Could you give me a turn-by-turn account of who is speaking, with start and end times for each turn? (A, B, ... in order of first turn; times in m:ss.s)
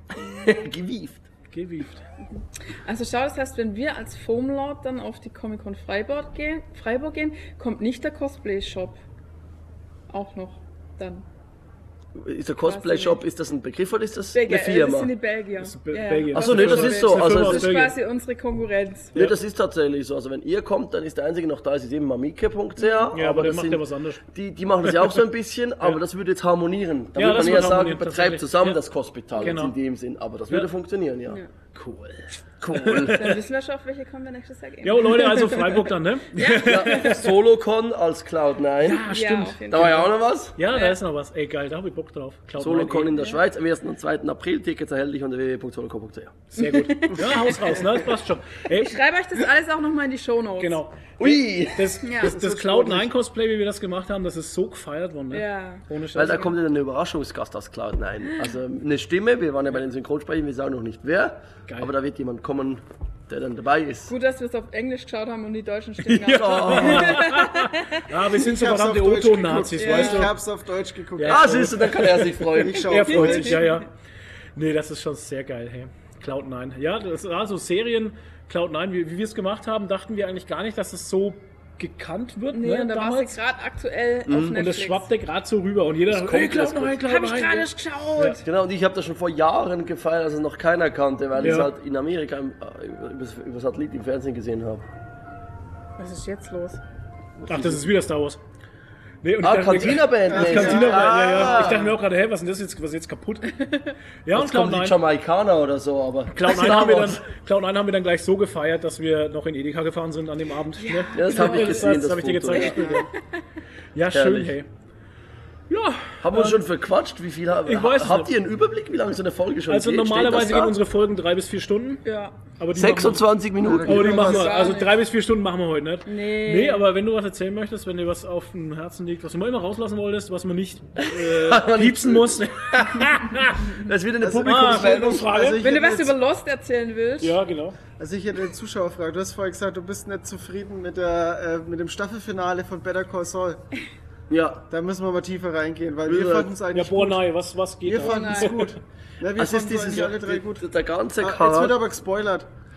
0:00.2-0:01.3 A
0:01.5-0:02.0 B
0:02.8-0:09.0 C
0:10.1-0:11.2 C
0:12.2-0:15.1 A
0:12.6-0:13.2 C
0:14.3-0:19.2 C
0:15.6-0:18.0 B
0:16.3-0:17.7 A
0:19.1-0:31.4 A
0:22.8-0:23.1 C
0:23.1-0:24.2 B
0:24.8-0:25.2 B
0:27.2-0:28.8 B
0:29.4-0:29.8 B
0:31.7-0:33.4 B
0:32.6-0:33.3 A
0:33.1-0:37.3 C
0:34.8-0:37.3 B
0:36.6-0:39.0 A
0:38.8-0:43.2 B
0:39.1-0:40.1 C
0:39.7-0:40.6 A
0:40.7-0:41.0 C
0:42.6-0:46.4 A
0:43.1-0:43.4 C
0:46.5-0:49.0 B
0:46.6-0:48.2 C
0:48.7-0:50.8 C
0:50.6-0:56.6 B
0:51.2-0:52.0 A
0:52.0-0:52.4 C
0:52.2-0:53.1 D
0:55.3-0:55.8 C
0:56.1-1:04.1 A
1:01.7-1:01.9 B
1:04.1-1:08.1 C
1:06.2-1:07.2 A
1:06.3-1:10.3 B
1:08.4-1:12.0 D
1:09.8-1:10.3 C
1:11.2-1:13.9 B
1:11.2-1:13.2 A
1:12.5-1:13.6 D
1:13.1-1:13.8 C
1:14.6-1:23.4 B
1:22.5-1:25.1 C
1:24.3-1:24.6 A
1:24.5-1:28.4 B
1:26.1-1:27.0 A
1:27.1-1:28.4 C
1:28.4-1:34.9 A
1:31.4-1:31.7 B
1:36.0-1:36.8 C
1:37.4-1:37.8 A
1:37.5-1:38.4 B
1:39.2-1:45.0 B
1:39.4-1:41.9 A
1:40.3-1:41.9 D
1:44.3-1:47.2 A
1:46.3-1:53.1 B
1:50.8-1:53.2 C
1:51.1-1:53.0 A
1:53.9-1:54.7 B
1:54.1-1:54.6 A
1:55.7-1:56.6 B
1:56.2-2:00.8 A
1:57.6-1:58.3 B
1:59.7-2:02.0 B
2:02.0-2:02.4 C
2:02.6-2:13.8 B
2:02.8-2:04.3 A
2:03.6-2:04.8 D
2:03.8-2:05.0 C
2:06.1-2:06.9 C
2:11.0-2:15.3 A
2:14.2-2:16.2 D
2:14.4-2:15.6 B
2:15.6-2:17.4 C
2:17.2-2:17.8 B
2:18.0-2:23.6 D
2:24.3-2:24.7 A
2:24.7-2:27.2 D
2:26.1-2:26.5 A
2:26.7-2:28.8 B
2:27.8-2:30.7 D
2:28.0-2:28.6 C
2:29.4-2:31.8 A
2:31.2-2:32.5 D